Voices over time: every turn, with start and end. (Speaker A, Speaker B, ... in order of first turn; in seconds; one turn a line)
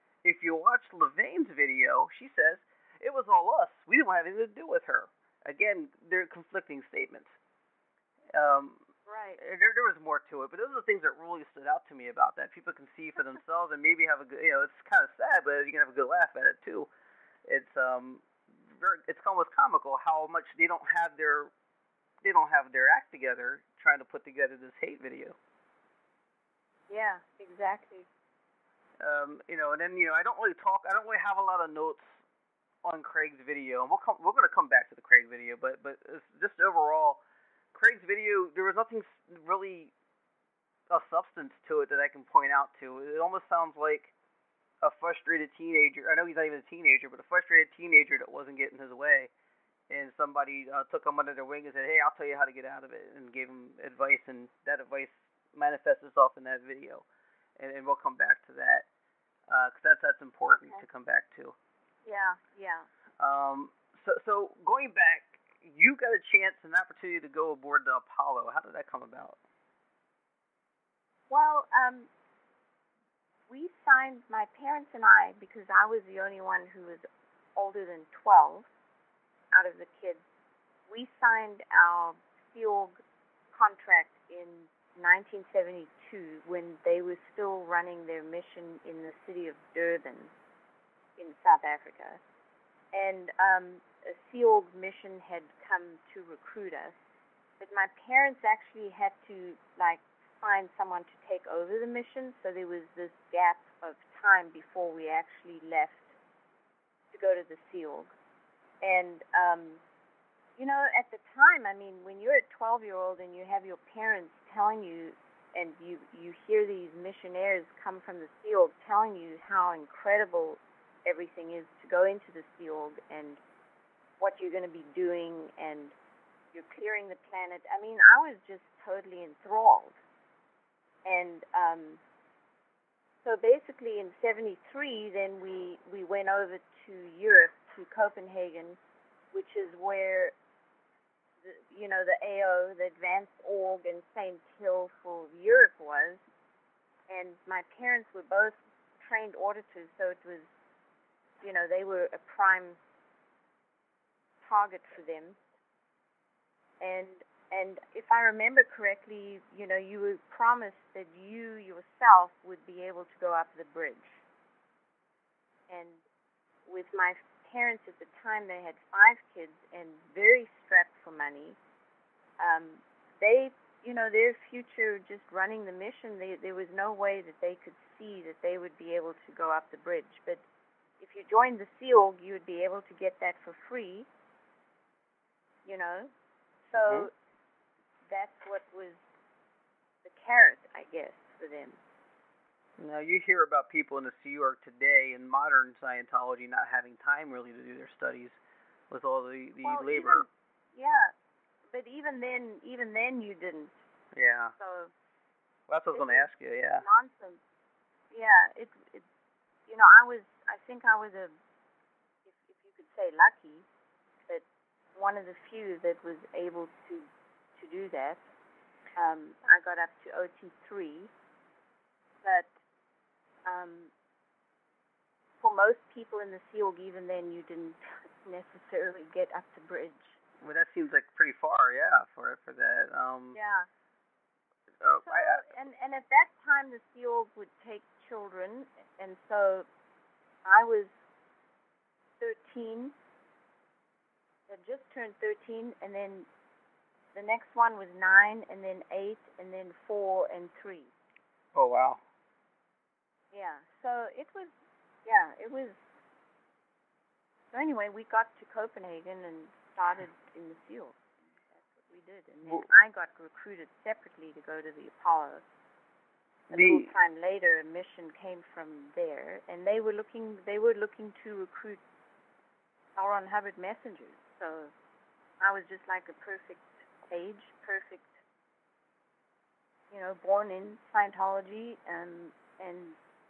Speaker A: 0.2-7.4
Speaker A: 8.3-8.8
Speaker B: 9.1-9.4
Speaker A: 9.4-16.9
Speaker A: 17.5-21.5
Speaker A: 22.2-25.4
Speaker B: 26.9-28.1
Speaker A: 29.0-32.2
Speaker A: 32.8-37.2
Speaker A: 37.7-39.9
Speaker A: 40.9-44.1
Speaker A: 44.8-49.3
Speaker A: 49.9-57.0
Speaker A: 57.6-58.9
Speaker A: 59.5-61.5
Speaker B: 60.5-60.9
Speaker B: 62.0-62.9
Speaker A: 63.2-69.4
Speaker B: 71.3-72.1
Speaker B: 73.5-78.7
Speaker B: 79.5-80.2
Speaker B: 80.9-83.0
Speaker B: 83.5-90.3
Speaker B: 91.2-92.2
Speaker B: 92.9-97.0
Speaker B: 97.6-106.2
Speaker B: 107.1-108.1
Speaker B: 108.8-109.8
Speaker B: 110.6-123.4
Speaker B: 124.2-126.0
Speaker B: 126.5-130.0
Speaker B: 131.1-132.0
Speaker B: 133.2-138.8
Speaker B: 139.3-140.3
Speaker B: 141.4-146.2
Speaker B: 147.1-150.5
Speaker B: 151.4-152.8
Speaker B: 154.4-155.4
Speaker B: 156.8-164.2
Speaker B: 165.7-166.0
Speaker B: 166.7-171.6
Speaker B: 172.4-180.4
Speaker B: 181.0-184.1
Speaker B: 185.7-186.1
Speaker B: 186.7-187.1
Speaker A: 186.7-187.1
Speaker B: 188.1-189.0
Speaker B: 190.0-191.8
Speaker A: 192.8-198.4
Speaker A: 198.9-200.3
Speaker B: 199.6-201.1
Speaker B: 201.7-203.8
Speaker A: 204.1-204.5
Speaker B: 204.6-204.9
Speaker A: 205.7-206.8
Speaker B: 205.9-207.4
Speaker B: 208.1-209.1
Speaker B: 209.7-211.4
Speaker B: 212.3-213.7
Speaker B: 214.9-218.3
Speaker B: 219.0-221.1
Speaker B: 222.2-222.5
Speaker B: 223.4-223.9
Speaker B: 225.4-230.2
Speaker A: 230.4-233.4
Speaker B: 233.3-233.7
Speaker A: 234.8-235.5
Speaker B: 235.0-239.7
Speaker B: 240.4-240.9
Speaker B: 242.2-242.9
Speaker B: 244.5-246.3
Speaker B: 247.2-250.9
Speaker A: 251.6-252.0
Speaker B: 253.3-254.5
Speaker B: 255.1-255.8
Speaker B: 257.5-261.0
Speaker B: 261.5-265.5
Speaker A: 266.5-266.9
Speaker B: 266.5-271.8
Speaker B: 273.0-274.7
Speaker B: 275.4-278.1
Speaker B: 279.9-283.0